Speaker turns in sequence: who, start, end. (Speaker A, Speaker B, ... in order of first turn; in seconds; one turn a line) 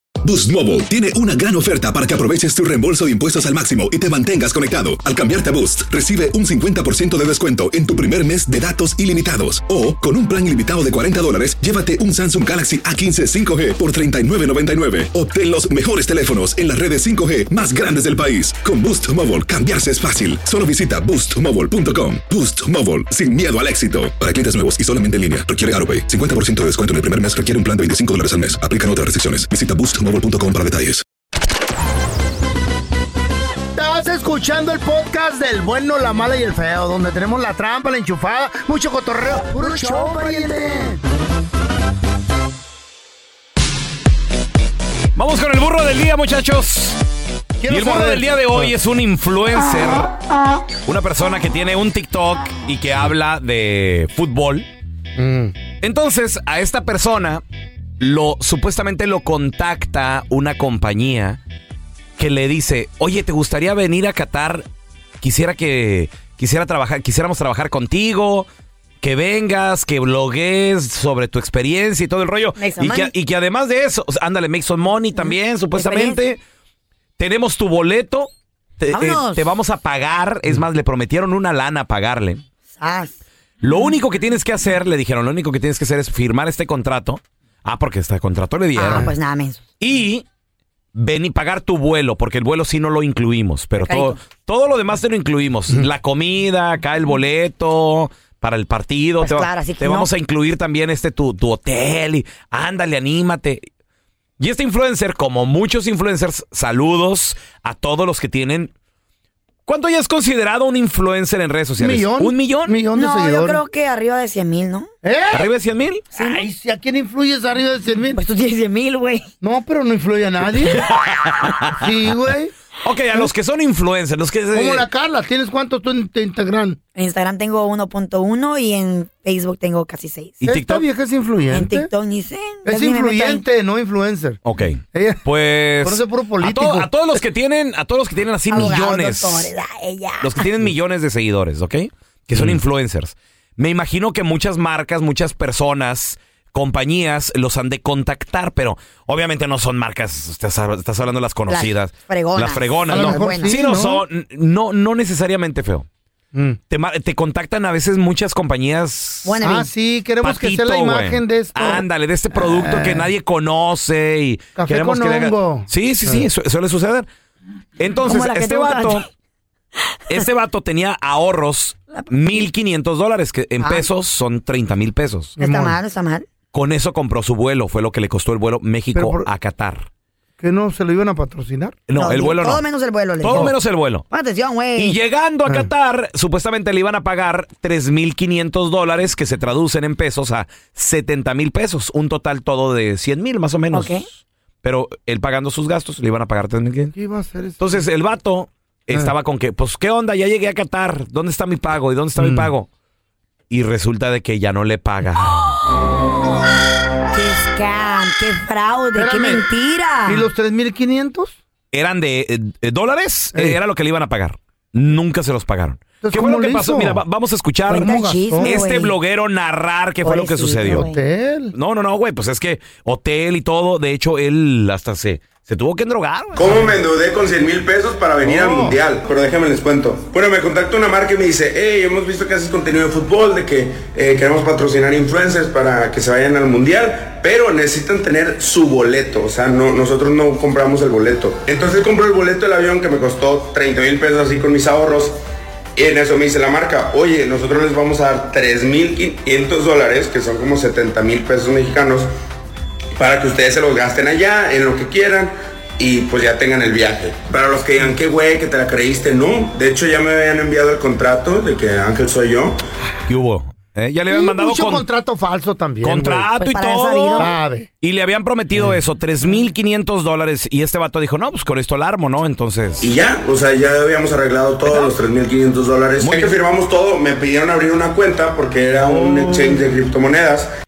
Speaker A: 0.2-31.0
Speaker B: 33.8-41.0
Speaker C: 45.2-47.0
Speaker B: 47.6-48.7
Speaker C: 47.7-50.1
Speaker C: 50.9-54.7
Speaker B: 55.2-55.5
Speaker C: 55.8-57.4
Speaker C: 58.0-61.4
Speaker C: 62.2-64.7
Speaker C: 65.2-68.5
Speaker C: 69.0-76.4
Speaker D: 72.6-73.1
Speaker D: 75.1-76.2
Speaker C: 77.2-82.4
Speaker D: 78.9-79.5
Speaker D: 82.8-83.1
Speaker C: 83.6-89.1
Speaker D: 88.8-89.6
Speaker C: 89.8-90.2
Speaker C: 91.0-103.6
Speaker D: 93.8-94.2
Speaker D: 99.2-100.1
Speaker C: 104.4-108.7
Speaker C: 109.7-112.8
Speaker B: 111.8-113.6
Speaker D: 112.9-114.9
Speaker B: 115.0-115.5
Speaker C: 115.3-116.2
Speaker D: 116.2-116.4
Speaker B: 116.2-118.2
Speaker D: 118.2-119.3
Speaker B: 119.4-120.8
Speaker C: 120.7-121.8
Speaker B: 121.8-122.5
Speaker C: 122.8-124.9
Speaker B: 124.5-126.8
Speaker D: 127.0-130.4
Speaker C: 130.4-130.8
Speaker B: 130.5-131.9
Speaker D: 131.5-133.4
Speaker B: 132.7-134.4
Speaker C: 134.4-139.5
Speaker B: 134.9-135.2
Speaker B: 135.8-136.9
Speaker D: 138.5-140.5
Speaker C: 140.2-155.9
Speaker D: 151.5-153.6
Speaker B: 152.9-154.0
Speaker B: 156.3-156.6
Speaker C: 156.7-159.4
Speaker D: 159.3-159.7
Speaker B: 159.4-163.1
Speaker C: 160.2-167.1
Speaker B: 164.6-166.3
Speaker C: 167.8-169.1
Speaker D: 168.0-169.1
Speaker C: 170.1-175.3
Speaker D: 171.9-172.4
Speaker D: 173.6-173.9
Speaker B: 175.4-175.8
Speaker D: 175.4-176.3
Speaker C: 176.5-179.9
Speaker B: 178.9-179.3
Speaker B: 180.4-181.8
Speaker C: 181.9-182.7
Speaker D: 182.0-183.5
Speaker C: 183.2-184.1
Speaker D: 184.1-185.0
Speaker C: 184.8-196.9
Speaker D: 193.7-194.1
Speaker B: 196.9-197.8
Speaker C: 197.6-202.7
Speaker B: 202.2-202.5
Speaker C: 203.5-205.5
Speaker D: 207.1-210.3
Speaker B: 208.9-209.4
Speaker B: 210.1-211.4
Speaker C: 211.7-220.9
Speaker B: 216.0-217.0
Speaker B: 217.7-218.6
Speaker D: 217.7-218.9
Speaker D: 220.0-221.0
Speaker B: 220.7-221.5
Speaker C: 221.5-226.7
Speaker E: 226.3-245.2
Speaker B: 228.2-228.8
Speaker E: 245.8-252.1
Speaker E: 253.0-262.6
Speaker C: 263.1-264.9
Speaker B: 264.1-266.3
Speaker C: 265.8-267.3
Speaker D: 266.4-267.3
Speaker B: 267.2-267.7
Speaker C: 267.8-272.8
Speaker E: 272.8-280.5
Speaker C: 276.0-276.3
Speaker B: 278.9-279.6